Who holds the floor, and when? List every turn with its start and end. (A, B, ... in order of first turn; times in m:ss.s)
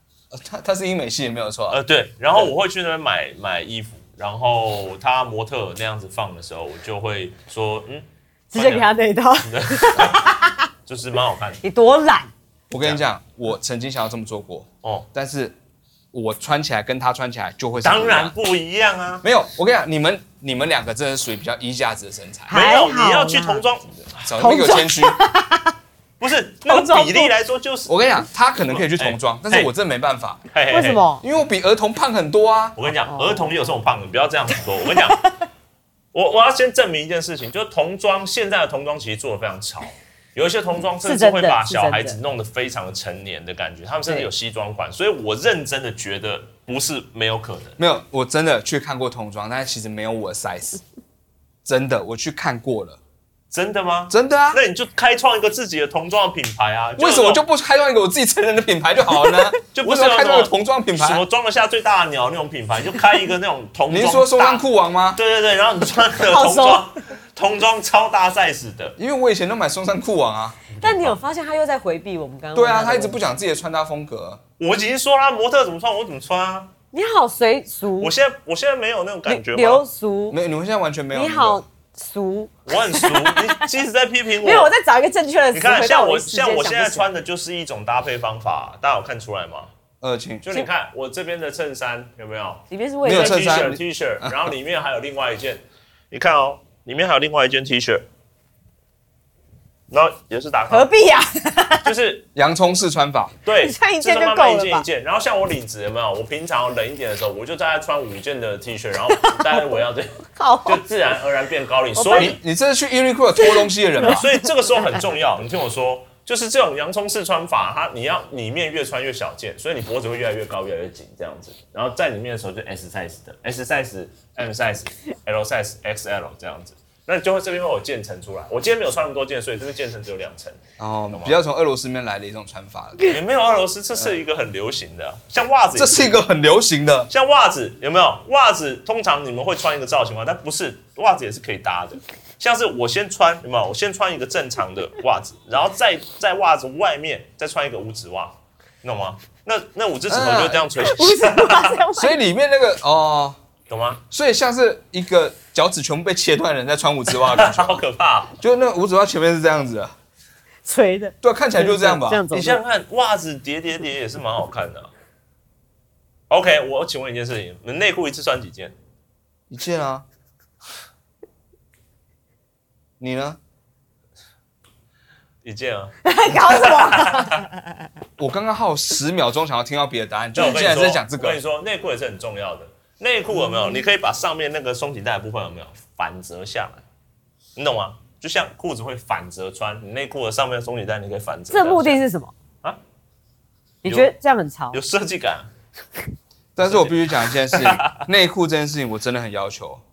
0:00.3-0:01.8 A
0:01.7-0:08.9 B
0:08.5-0:10.6 C
0:09.4-0:11.6 B
0:11.6-0:12.3 C
0:12.7-0:15.5 A
0:12.7-0:13.0 B
0:16.1-0:18.3 A
0:17.8-0:19.2 B
0:19.2-0:22.5 A
0:22.5-0:23.6 C
0:22.5-0:24.2 B
0:24.1-0:25.2 A
0:24.4-0:25.7 C
0:26.2-0:28.0 B
0:26.6-0:27.3 C
0:27.9-0:30.5 A
0:28.6-0:29.7 B
0:30.5-0:31.0 B
0:30.7-0:31.2 C
0:31.2-0:32.9 A
0:32.8-0:35.2 B
0:33.1-0:33.6 C
0:34.9-0:35.3 C
0:36.1-0:47.8 B
0:41.0-0:42.2 C
0:47.8-0:50.8 A
0:51.6-0:53.0 A
0:53.5-0:57.4 B
0:54.1-0:54.6 A
0:57.0-1:01.2 A
0:59.7-1:09.0 B
1:03.9-1:05.2 A
1:06.2-1:06.9 C
1:09.0-1:10.6 A
1:10.7-1:11.2 B
1:10.8-1:13.2 C
1:12.5-1:14.4 A
1:14.6-1:16.7 B
1:16.9-1:18.1 C
1:18.0-1:19.8 B
1:19.3-1:20.4 C
1:20.3-1:21.6 A
1:21.1-1:23.6 C
1:22.7-1:24.7 B
1:24.4-1:27.1 C
1:25.5-1:29.7 B
1:30.0-1:30.6 A
1:30.4-1:38.0 B
1:32.7-1:33.8 C
1:33.0-1:34.4 A
1:39.9-1:40.9 B
1:40.7-1:41.9 C
1:41.8-1:42.3 B
1:42.3-1:43.3 A
1:43.4-1:52.4 B
1:43.6-1:44.8 C
1:49.2-1:49.6 C
1:50.3-1:50.8 C
1:52.0-1:52.3 C
1:52.2-1:54.3 A
1:53.4-1:54.2 C
1:54.0-2:10.6 B
2:10.8-2:13.1 A
2:11.1-2:11.4 B
2:13.0-2:16.2 B
2:15.7-2:17.1 A
2:17.1-2:31.8 B
2:30.1-2:30.7 A
2:30.8-2:32.2 C
2:31.9-2:33.4 A
2:33.7-2:34.0 B
2:34.1-2:37.8 A
2:37.1-2:38.4 B
2:38.4-2:39.9 A
2:40.6-2:42.6 C
2:41.2-2:42.2 A
2:42.3-2:44.9 B
2:46.3-2:48.7 B
2:49.5-2:50.0 A
2:53.0-2:53.4 A
2:55.4-2:57.5 B
2:56.0-2:57.5 C
2:58.2-3:01.4 A
3:00.3-3:06.8 B
3:07.6-3:12.0 B
3:11.5-3:12.3 C
3:13.8-3:14.1 B
3:13.8-3:14.8 C
3:14.7-3:15.5 B
3:16.5-3:19.8 A
3:16.6-3:18.0 B